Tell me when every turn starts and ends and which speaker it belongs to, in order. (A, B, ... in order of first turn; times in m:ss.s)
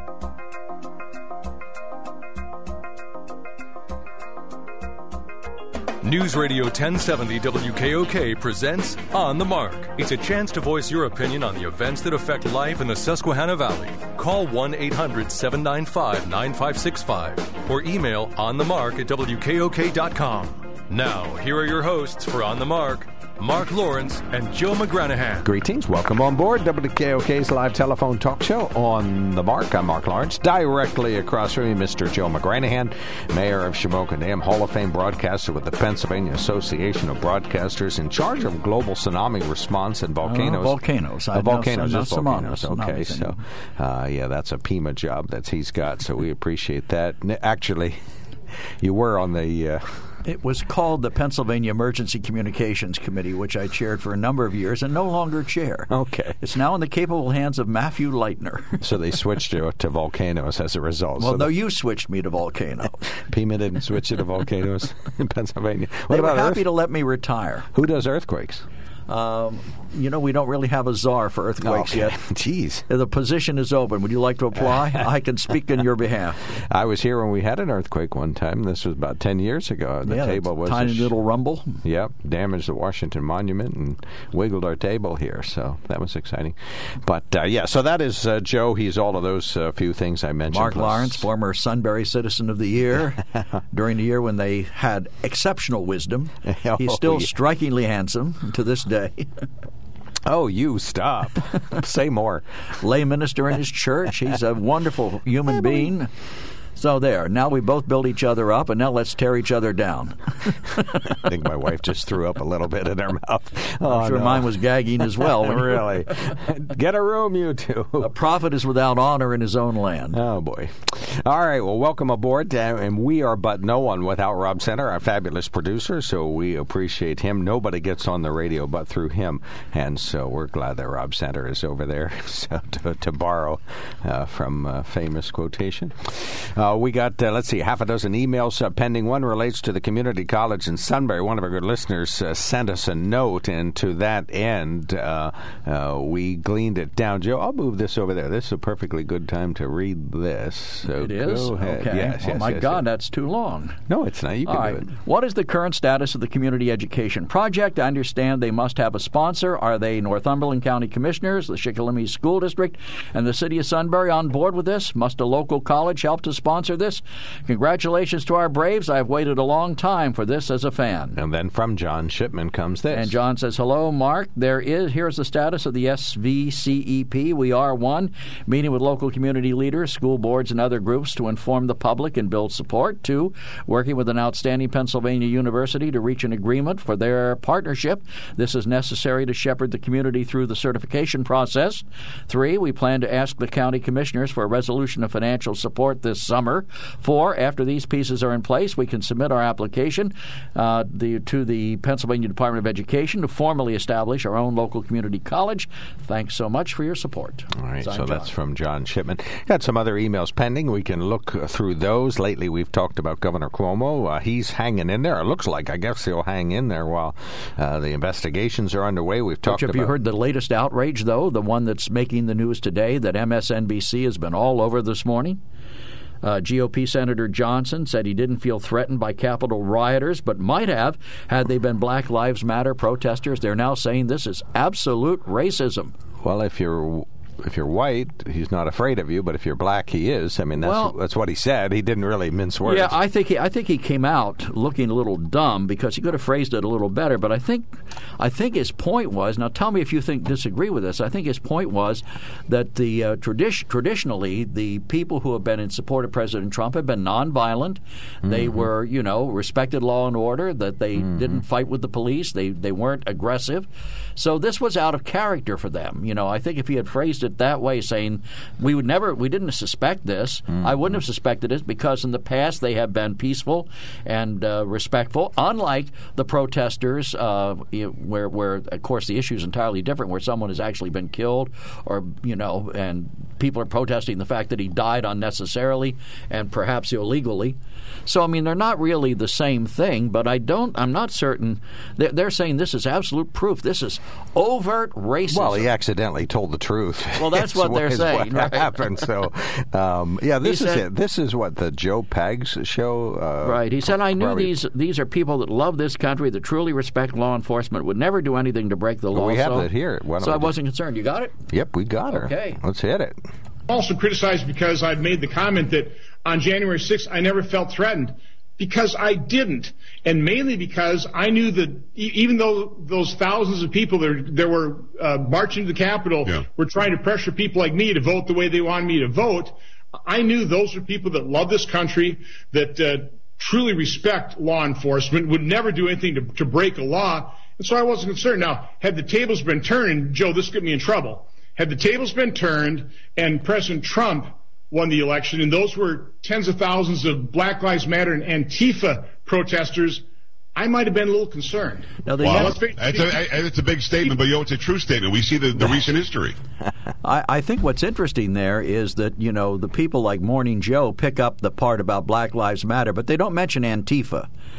0:06.0-0:25.5 A
0:25.4-0:40.8 B
0:40.2-0:43.4 C
0:41.3-0:48.0 B
0:48.8-0:50.1 B
0:50.2-0:58.8 C
0:55.9-0:56.4 B
0:58.8-1:01.5 B
1:01.2-1:03.0 C
1:03.3-1:06.6 B
1:06.1-1:07.7 C
1:07.7-1:08.7 B
1:09.1-1:12.2 C
1:11.6-1:12.9 B
1:12.9-1:16.4 C
1:16.5-1:21.1 B
1:20.1-1:21.8 C
1:21.8-1:31.3 B
1:30.5-1:39.4 C
1:36.5-1:37.3 B
1:40.2-1:42.5 B
1:42.8-1:46.1 C
1:45.5-1:45.9 B
1:46.8-1:50.9 C
1:51.0-1:54.5 B
1:53.8-1:55.9 C
1:55.1-1:58.1 B
1:58.0-2:00.2 C
2:00.1-2:32.8 B
2:31.0-2:33.8 C
2:33.9-2:34.9 B
2:34.5-2:51.2 C
2:51.2-2:53.2 B
2:52.9-3:28.3 C
3:27.6-3:39.9 B
3:39.5-3:45.4 C
3:46.2-3:55.9 C
3:56.2-4:03.0 B
4:00.6-4:00.9 C
4:02.6-4:55.7 C
4:18.2-4:18.7 B
4:21.0-4:21.4 B
4:30.5-4:31.0 B
4:55.3-5:04.5 B
4:57.2-4:58.8 C
5:00.4-5:00.8 C
5:03.4-5:11.4 C
5:09.1-5:10.6 B
5:11.5-5:13.2 B
5:12.1-5:12.6 C
5:13.7-5:53.3 D
5:52.1-5:52.6 C
5:52.2-5:56.4 E
5:57.0-6:04.3 C